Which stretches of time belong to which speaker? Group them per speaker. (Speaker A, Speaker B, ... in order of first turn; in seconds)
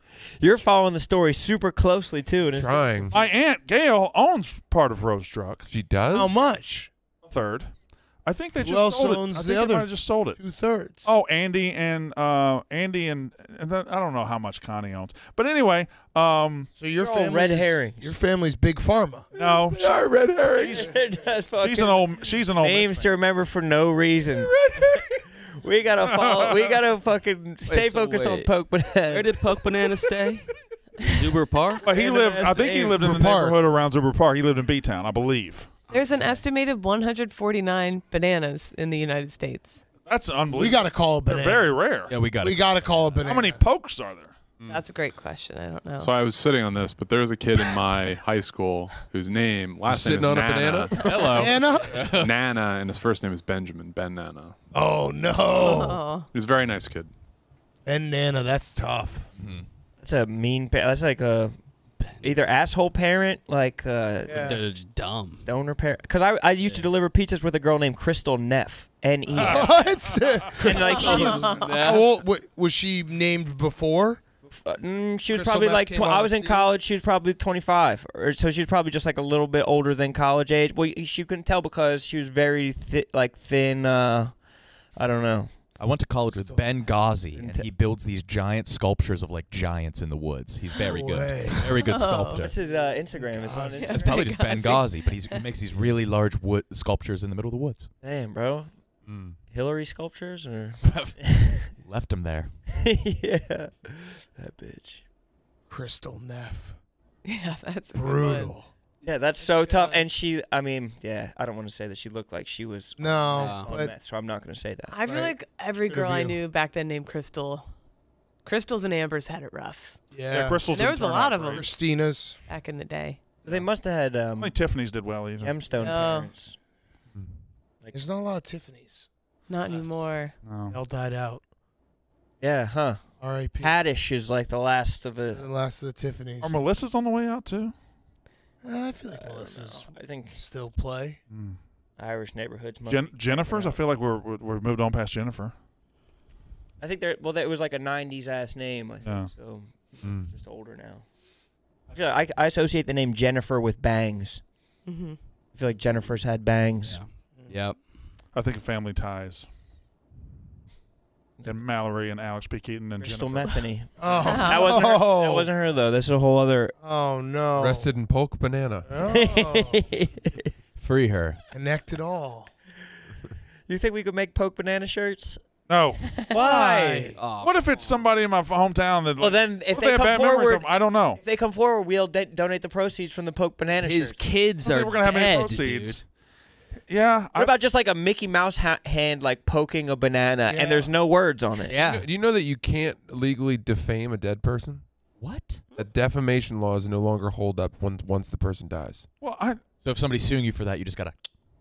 Speaker A: 0.4-3.2, 17.0-18.1, 20.6-29.4, 31.8-33.2, 60.0-61.6, 62.2-64.7, 65.4-70.0, 70.6-71.7, 74.5-85.7, 87.3-87.7, 92.3-94.3, 98.0-101.7, 102.7-105.1, 109.0-115.0, 123.4-124.7, 125.4-126.6, 127.8-128.1, 132.4-135.5, 139.2-140.4, 142.0-143.8, 146.8-151.2, 151.9-154.5, 155.5-157.0, 163.0-166.8, 169.0-170.5, 173.7-175.4, 176.3-177.2, 179.2-184.4, 187.4-191.8
Speaker B: 2.5-3.2, 5.7-6.4, 19.7-20.8, 49.9-51.1, 99.0-99.4, 127.1-127.4, 150.0-150.3, 167.6-169.0, 191.8-195.1, 195.8-199.1
Speaker C: 3.1-5.7, 7.2-10.4, 11.0-16.7, 19.4-19.9, 20.5-20.9, 21.6-23.2, 26.0-26.7, 31.8-35.9, 40.1-42.1, 43.2-44.4, 69.3-70.5, 120.3-121.7, 124.3-125.7, 130.4-130.8, 136.4-137.8, 141.3-141.6, 142.9-145.6, 149.0-149.3, 158.3-159.5, 161.4-163.7, 175.7-176.1, 177.4-181.2, 184.6-186.1, 186.9-187.5, 199.2-199.6
Speaker D: 6.1-6.9, 8.6-11.1, 16.8-19.3, 33.0-33.6, 40.5-43.6, 51.3-52.0, 54.7-56.0, 57.9-59.3, 64.3-64.6, 69.4-74.2, 75.3-76.8, 86.3-86.7, 90.9-91.9, 92.6-94.0, 105.7-106.8, 107.9-108.7, 113.0-113.9, 115.0-116.4, 120.1-122.4, 127.9-129.1, 129.7-131.4, 133.2-133.8, 135.3-136.6, 138.6-141.2, 157.3-157.6, 164.0-165.5, 166.8-167.9, 168.9-169.9, 171.5-172.5, 176.3-177.2, 190.5-190.9
Speaker E: 27.7-28.5, 29.1-31.9, 62.0-62.3, 64.3-65.5, 70.8-72.1, 113.3-113.8, 156.8-158.1, 177.2-177.7, 183.8-186.0
Speaker F: 35.9-39.9, 44.7-46.1, 55.5-56.3, 70.8-71.7, 91.9-92.5, 93.7-95.5, 107.2-110.0, 114.9-117.8, 118.4-120.1, 120.7-123.2, 125.8-126.3, 129.5-130.3, 154.9-155.2, 164.2-164.8
Speaker G: 42.1-43.2, 50.9-52.3, 59.4-59.7, 85.8-92.6, 93.9-97.9, 100.8-102.6, 170.8-171.4, 191.7-192.1, 195.1-195.7, 199.8-201.2
Speaker H: 46.0-54.6, 55.6-57.1